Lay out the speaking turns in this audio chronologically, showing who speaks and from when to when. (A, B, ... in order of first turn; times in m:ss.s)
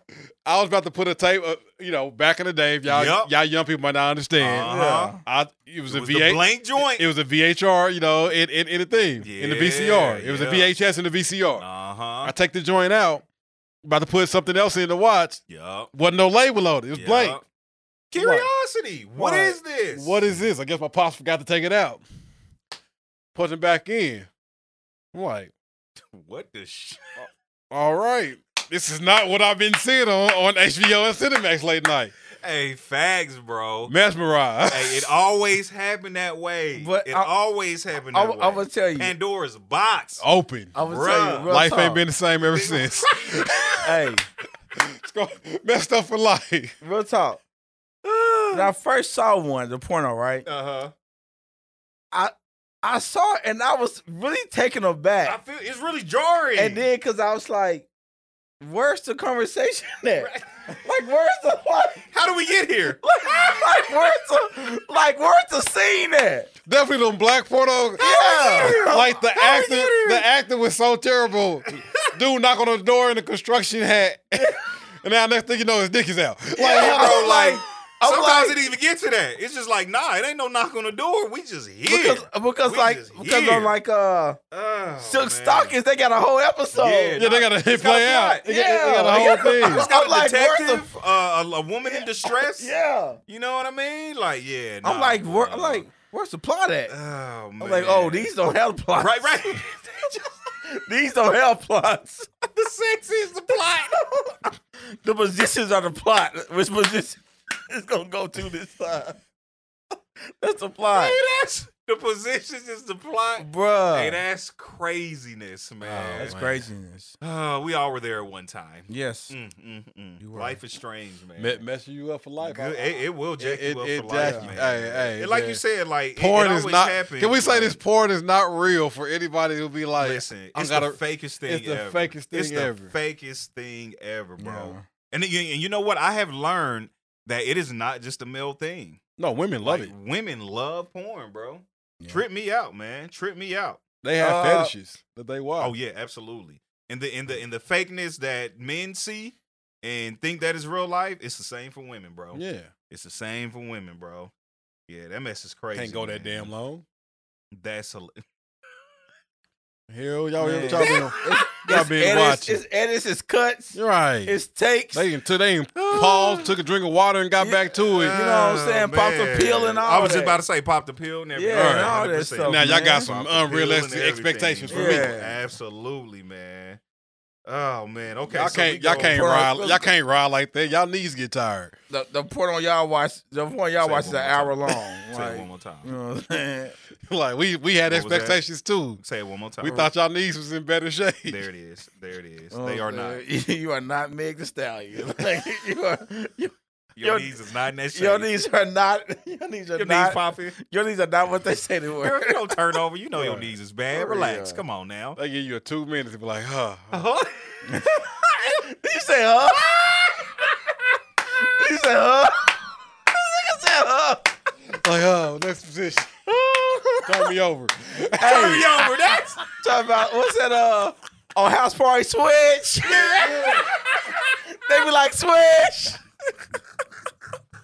0:00.4-0:04.7 A
0:02.9-0:03.3 B
0:04.4-0:05.2 B
0:04.7-0:05.2 C
0:05.2-0:11.7 A
0:05.9-0:07.1 B
0:09.2-0:10.8 B
0:11.6-0:12.3 B
0:12.2-0:13.3 A
0:13.8-0:15.4 A
0:15.5-0:15.9 B
0:15.9-0:17.4 A
0:16.9-0:17.4 B
0:18.1-0:20.2 B
0:18.1-0:18.5 A
0:19.2-0:22.0 A
0:23.3-0:24.3 A
0:25.1-0:25.5 A
0:26.1-0:27.3 B
0:27.7-0:32.1 A
0:32.4-0:33.9 B
0:33.9-0:35.1 A
0:34.7-0:41.5 B
0:36.8-0:37.3 C
0:38.1-0:39.1 C
0:40.2-0:40.8 A
0:40.8-0:42.0 C
0:41.5-0:43.9 A
0:42.5-0:43.8 B
0:43.8-0:44.3 C
0:44.8-0:46.8 A
0:46.8-0:47.4 C
0:48.0-0:48.7 B
0:48.5-0:50.5 C
0:50.5-0:50.9 B
0:52.1-0:55.4 C
0:55.2-0:56.9 B
0:56.6-0:57.9 C
0:58.6-1:02.1 C
1:00.2-1:00.5 B
1:02.1-1:03.0 B
1:03.0-1:06.5 C
1:06.7-1:17.0 A
1:08.0-1:10.2 B
1:08.0-1:09.1 C
1:16.6-1:18.6 C
1:16.6-1:23.7 B
1:21.9-1:24.4 C
1:24.5-1:25.8 B
1:25.0-1:27.3 C
1:26.7-1:28.5 B
1:27.2-1:29.9 A
1:28.4-1:30.9 C
1:29.1-1:32.7 B
1:31.9-1:33.2 C
1:33.3-1:35.9 B
1:34.8-1:36.9 C
1:36.9-1:38.3 B
1:37.6-1:40.1 C
1:39.0-1:40.2 B
1:40.6-1:42.3 C
1:42.5-1:44.0 B
1:44.0-1:49.2 C
1:50.3-1:51.2 C
1:50.9-1:56.4 B
1:53.4-1:54.2 C
1:55.8-1:56.6 A
1:56.2-1:57.2 C
1:57.2-2:01.6 B
1:58.9-1:59.4 C
2:00.2-2:00.6 C
2:01.4-2:02.8 A
2:02.4-2:07.8 B
2:03.4-2:05.6 A
2:04.2-2:04.5 C
2:06.2-2:12.9 A
2:10.0-2:19.0 B
2:14.4-2:14.9 C
2:19.2-2:19.9 A
2:19.6-2:23.8 B
2:24.0-2:25.7 A
2:24.2-2:24.7 C
2:25.6-2:34.3 B
2:32.3-2:32.7 A
2:34.9-2:36.5 B
2:35.7-2:36.8 A
2:37.5-2:38.2 B
2:39.9-2:42.6 A
2:40.4-2:45.1 C
2:40.8-2:41.2 B
2:43.7-2:44.4 A
2:44.9-2:48.2 A
2:45.8-2:46.6 B
2:47.4-2:50.4 C
2:47.9-2:56.8 B
2:51.3-2:53.1 C
2:51.5-2:55.1 A
2:54.7-2:55.4 C
2:57.5-2:59.5 B
2:58.3-3:01.8 A
2:58.9-2:59.9 C
3:01.9-3:06.8 C
3:03.8-3:05.9 B
3:07.1-3:09.0 A
3:07.9-3:08.4 B
3:09.0-3:09.9 B
3:09.6-3:11.4 A
3:11.3-3:13.2 B
3:12.5-3:17.3 C
3:17.0-3:18.3 B
3:17.9-3:22.6 C
3:19.8-3:20.6 B
3:22.0-3:25.2 B
3:23.2-3:23.5 A
3:23.9-3:24.6 C
3:25.2-3:27.1 A
3:26.9-3:27.6 B
3:27.7-3:29.9 C
3:29.6-3:30.2 B
3:31.4-3:32.6 C
3:33.1-3:34.3 C
3:34.7-3:36.1 A
3:36.3-3:37.3 C
3:37.0-3:38.6 A
3:38.2-3:38.9 C
3:38.2-3:39.4 B
3:39.5-3:43.6 C
3:42.8-3:44.2 B
3:44.6-3:46.0 C